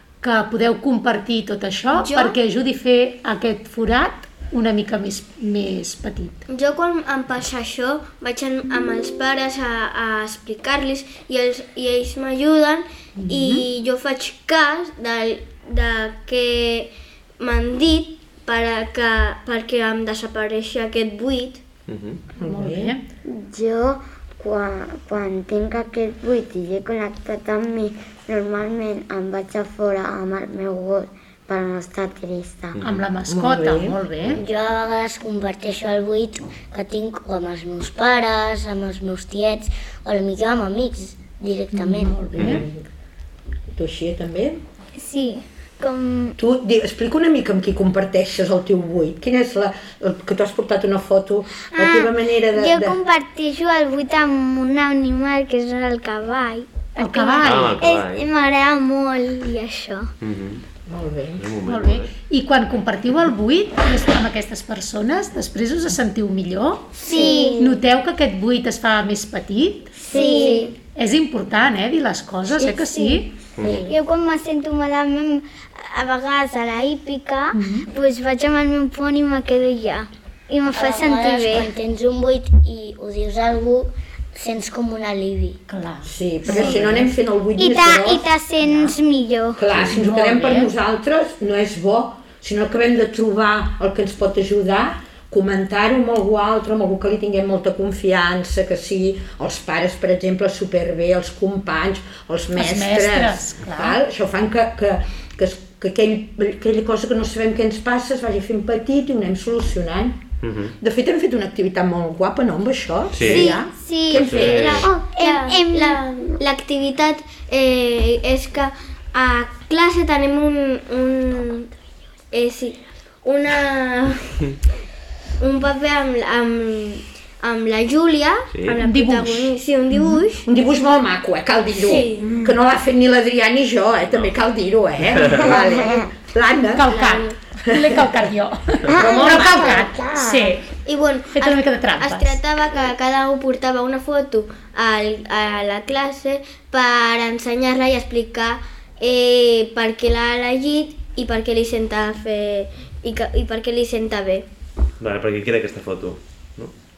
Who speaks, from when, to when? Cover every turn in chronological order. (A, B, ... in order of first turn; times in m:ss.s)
0:00.2-0:06.4 A
0:01.9-0:02.4 B
0:06.5-0:21.6 B
0:13.2-0:13.6 A
0:21.9-0:22.2 C
0:22.4-0:22.9 D
0:22.4-0:23.0 A
0:23.2-0:32.8 E
0:32.7-0:33.0 C
0:32.8-0:34.4 A
0:33.3-0:34.0 D
0:34.3-0:42.2 F
0:41.7-0:42.6 A
0:42.3-0:42.8 D
0:42.4-0:42.6 C
0:43.7-0:44.6 D
0:45.0-0:46.4 G
0:46.4-0:53.0 D
0:51.7-1:00.1 G
0:57.0-0:57.8 A
0:57.4-0:58.3 C
1:00.2-1:00.6 C
1:00.9-1:01.4 D
1:01.4-1:02.1 C
1:01.6-1:10.0 A
1:07.0-1:07.7 G
1:07.0-1:07.6 E
1:10.1-1:10.7 E
1:10.1-1:10.7 G
1:11.0-1:13.3 A
1:12.6-1:21.7 G
1:13.6-1:13.9 C
1:17.5-1:17.9 A
1:20.7-1:25.6 F
1:25.7-1:27.1 A
1:26.0-1:28.2 D
1:27.6-1:29.6 G
1:28.6-1:28.9 A
1:29.6-1:50.2 D
1:29.9-1:30.7 A
1:42.5-1:44.0 A
1:50.4-1:50.7 C
1:50.8-1:54.8 D
1:53.1-1:53.5 C
1:53.3-1:53.6 B
1:53.3-1:54.2 G
1:54.1-1:54.9 C
1:54.1-2:01.7 B
1:54.8-1:56.0 G
2:02.3-2:04.5 B
2:05.4-2:10.5 B
2:08.5-2:08.8 C
2:08.8-2:10.2 A
2:10.5-2:16.9 D
2:11.8-2:12.3 B
2:15.1-2:15.4 C
2:15.4-2:16.1 E
2:16.7-2:20.6 A
2:16.9-2:17.3 B
2:17.7-2:18.0 D
2:18.9-2:19.7 D
2:18.9-2:20.5 E
2:19.5-2:19.8 F
2:20.8-2:34.4 B
2:21.3-2:22.4 A
2:35.0-2:36.7 C